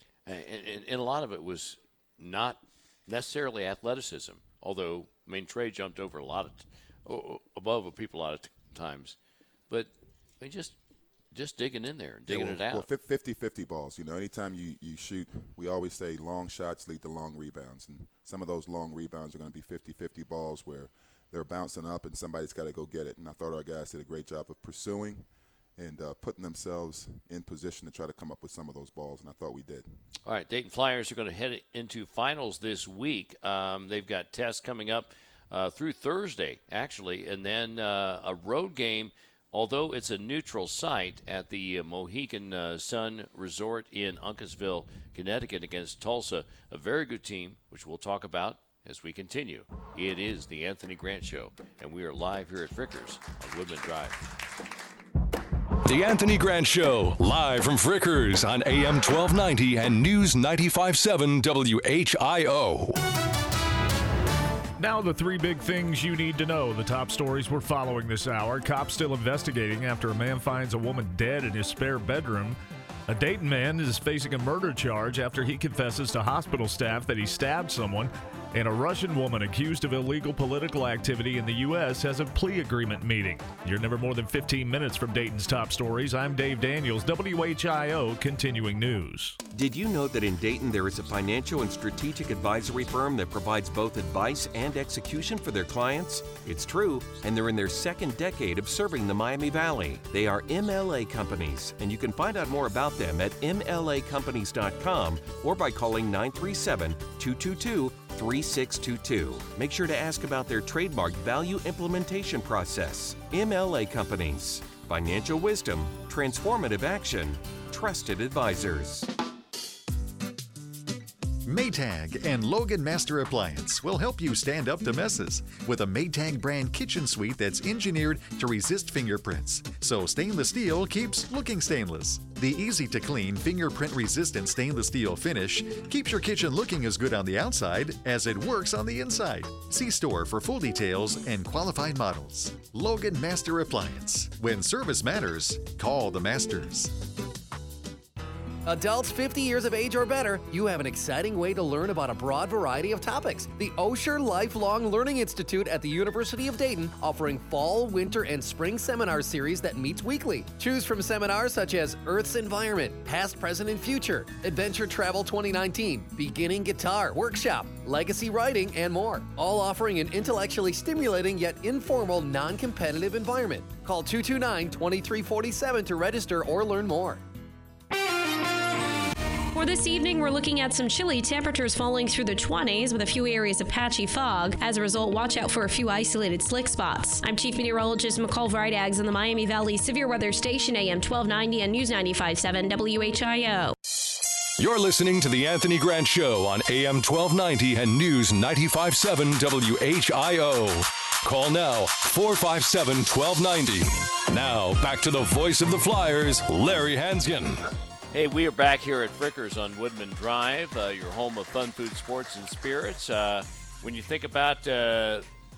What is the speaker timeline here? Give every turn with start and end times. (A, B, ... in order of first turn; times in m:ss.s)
0:00.3-0:09.2 A
0:09.7-0:10.8 A
0:11.3-0:12.9 A
0:12.3-0:30.0 B
0:30.2-0:54.2 A
0:55.8-1:03.0 C
1:04.8-1:29.4 D
1:29.5-1:59.1 E
2:01.4-2:27.0 F
2:28.7-2:57.2 G
2:59.5-3:13.7 H
3:14.6-3:27.7 C
3:28.1-3:35.3 A